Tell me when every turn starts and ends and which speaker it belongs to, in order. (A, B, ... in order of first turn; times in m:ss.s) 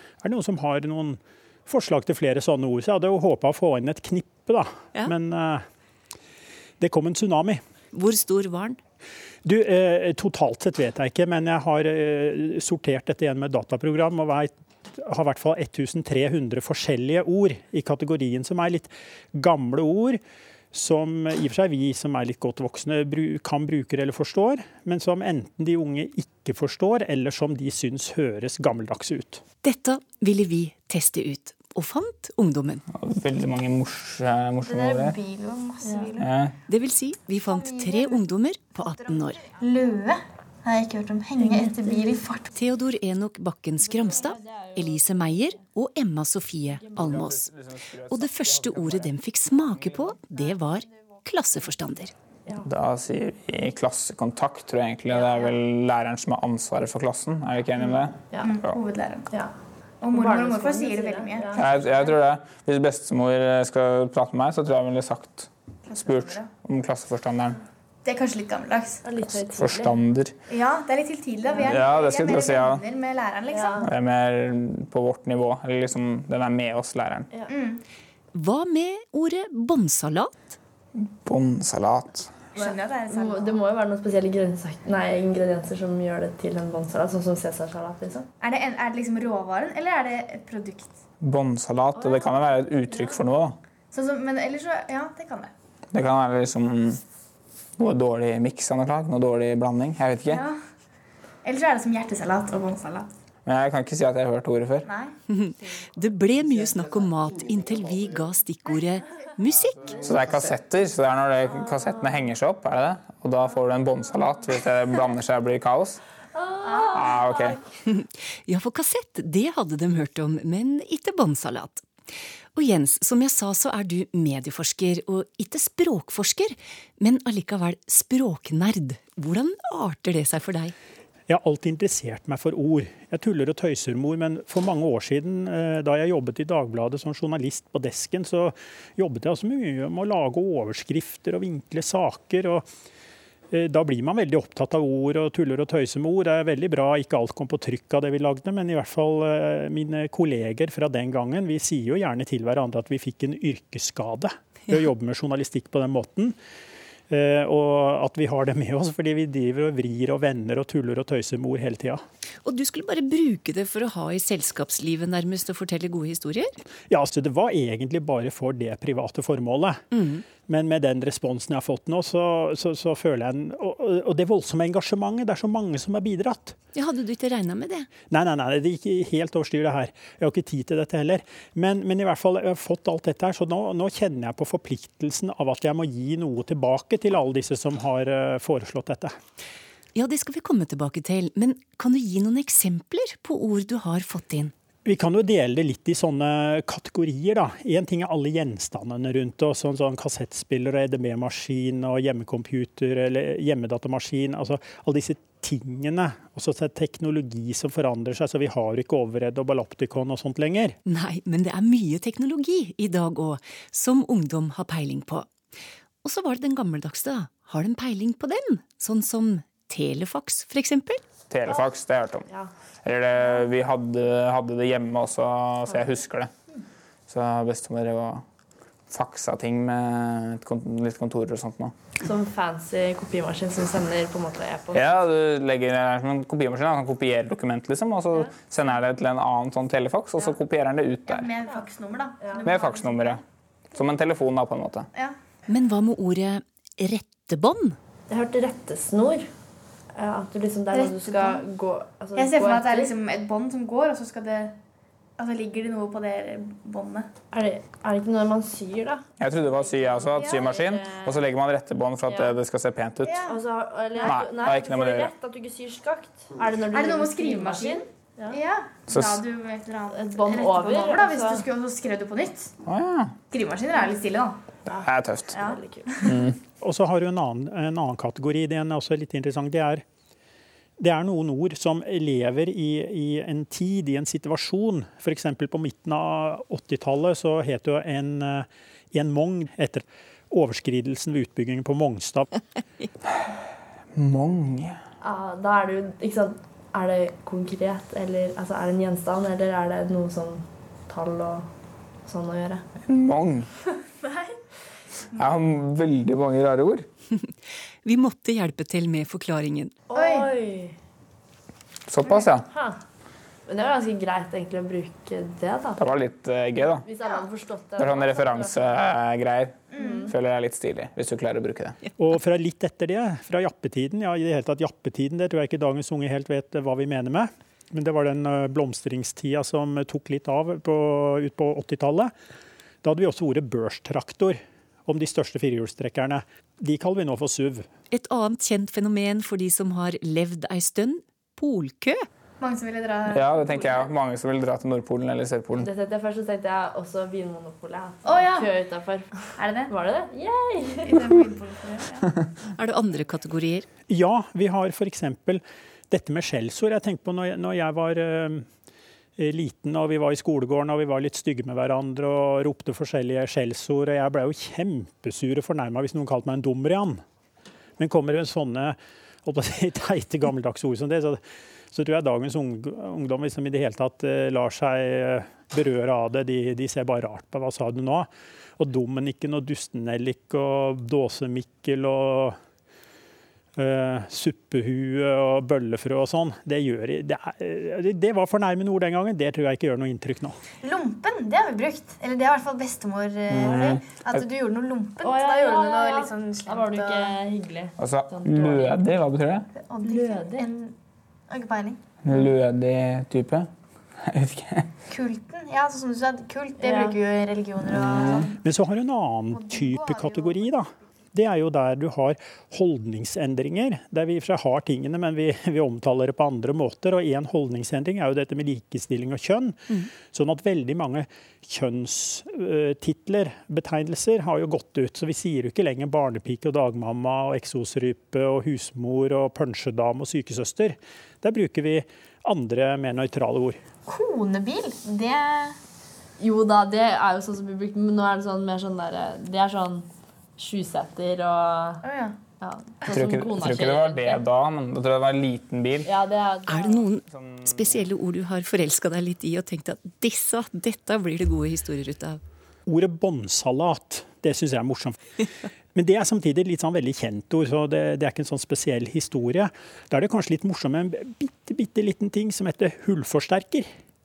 0:00.2-0:05.6 A
0:06.8-0:07.6 A
0:07.9-0:08.8 B
0:09.4-0:20.2 A
0:20.7-0:29.4 A
0:29.6-0:32.8 B
0:32.9-0:35.2 C
0:34.6-0:36.3 D
0:35.8-0:36.2 E
0:36.2-0:36.6 C
0:36.7-0:39.4 B
0:37.4-0:38.2 D
0:38.8-0:42.5 D
0:41.4-0:42.2 E
0:42.5-0:47.5 B
0:44.4-0:44.8 E
0:46.9-0:50.2 C
0:48.1-0:52.1 B
0:52.6-0:58.8 C
0:55.1-0:55.5 E
0:58.4-0:59.3 D
1:00.0-1:01.9 D
1:00.1-1:02.1 E
1:01.6-1:07.6 C
1:05.9-1:06.4 D
1:08.0-1:09.1 D
1:09.0-1:10.0 E
1:09.3-1:10.4 C
1:10.5-1:13.9 D
1:11.4-1:11.8 E
1:11.6-1:12.8 C
1:13.5-1:13.9 E
1:13.8-1:17.3 C
1:17.5-1:17.8 D
1:18.3-1:20.6 B
1:21.0-1:22.4 C
1:22.5-1:23.6 D
1:22.6-1:28.3 E
1:28.4-1:31.0 D
1:31.2-1:33.6 C
1:32.0-1:32.4 E
1:32.9-1:33.2 E
1:33.9-1:35.5 D
1:35.9-1:37.0 C
1:37.8-1:40.4 C
1:40.3-1:40.6 D
1:41.4-1:43.1 D
1:43.4-1:44.9 C
1:44.8-1:45.1 D
1:45.3-1:50.0 B
1:50.0-1:56.0 C
1:56.4-1:57.4 E
1:56.7-1:57.5 D
1:56.9-1:57.6 C
1:57.9-2:01.9 B
2:02.5-2:10.7 B
2:11.3-2:22.6 A
2:23.5-2:36.4 A
2:37.1-2:42.0 A
2:42.4-2:46.6 B
2:46.9-2:49.8 A
2:49.9-2:50.2 B
2:50.4-2:56.6 A
2:56.7-2:57.9 B
2:58.1-3:09.1 A
3:09.9-3:14.5 B
3:14.8-3:30.7 A
3:30.8-3:35.3 B
3:36.0-3:41.0 B
3:41.3-3:42.3 C
3:41.5-3:41.7 E
3:42.8-3:46.3 C
3:43.2-3:43.4 E
3:45.7-3:46.0 E
3:47.1-3:48.2 C
3:48.9-3:51.7 C
3:52.0-3:55.0 E
3:54.7-4:01.4 C
4:01.1-4:03.2 D
4:02.2-4:02.6 E
4:02.4-4:03.2 C
4:03.7-4:04.9 C
4:05.5-4:07.8 B
4:08.1-4:09.3 E
4:10.0-4:12.9 E
4:10.7-4:11.4 D
4:12.1-4:14.6 D
4:15.2-4:17.1 D
4:17.3-4:21.2 E
4:19.2-4:23.3 C
4:20.2-4:20.6 D
4:22.1-4:22.4 E
4:23.0-4:23.4 D
4:23.3-4:28.4 E
4:23.9-4:24.2 D
4:24.0-4:25.1 C
4:26.6-4:32.5 D
4:28.9-4:29.2 C
4:29.9-4:31.4 E
4:32.6-4:33.2 C
4:33.3-4:34.4 D
4:34.7-4:35.4 C
4:34.7-4:36.1 E
4:35.3-4:36.3 D
4:36.0-4:36.4 C
4:36.6-4:39.8 A
4:40.8-4:52.3 A
4:54.0-4:54.8 C
4:55.0-5:01.5 E
5:02.0-5:02.6 E
5:02.8-5:03.5 C
5:04.0-5:04.3 D
5:05.2-5:06.8 C
5:07.8-5:09.7 B
5:09.9-5:10.7 E
5:09.9-5:10.3 D
5:11.9-5:12.5 C
5:12.5-5:12.8 E
5:13.5-5:15.9 E
5:15.8-5:16.8 C
5:16.6-5:18.8 E
5:17.8-5:21.8 C
5:19.7-5:20.1 D
5:19.8-5:20.1 E
5:22.0-5:32.1 A
5:32.8-5:37.7 A
5:37.9-5:42.1 B
5:42.4-5:43.9 D
5:43.1-5:45.7 C
5:45.6-5:52.0 E
5:48.0-5:48.5 D
5:49.3-5:49.7 D
5:50.8-5:52.0 D
5:52.5-5:53.7 B
5:53.9-5:58.5 A
5:59.2-6:07.0 A
6:07.8-6:11.2 A
6:11.7-6:22.4 A
6:23.6-6:30.4 A
6:30.6-6:37.2 D
6:33.3-6:34.2 C
6:33.4-6:33.7 E
6:35.0-6:38.8 E
6:37.8-6:39.5 C
6:39.5-6:40.7 D
6:39.8-6:40.5 E
6:41.3-6:41.8 D
6:42.0-6:44.7 C
6:44.9-6:48.3 D
6:46.6-6:47.0 E
6:47.7-6:48.3 C
6:48.4-7:13.6 A
6:49.3-6:50.6 D
7:13.8-7:15.6 D
7:16.2-7:21.8 E
7:21.8-7:22.2 D
7:22.4-7:24.2 E
7:22.9-7:25.9 C
7:25.8-7:26.9 E
7:26.5-7:32.2 B
7:27.1-7:27.8 C
7:32.6-7:35.0 A
7:35.7-7:43.7 A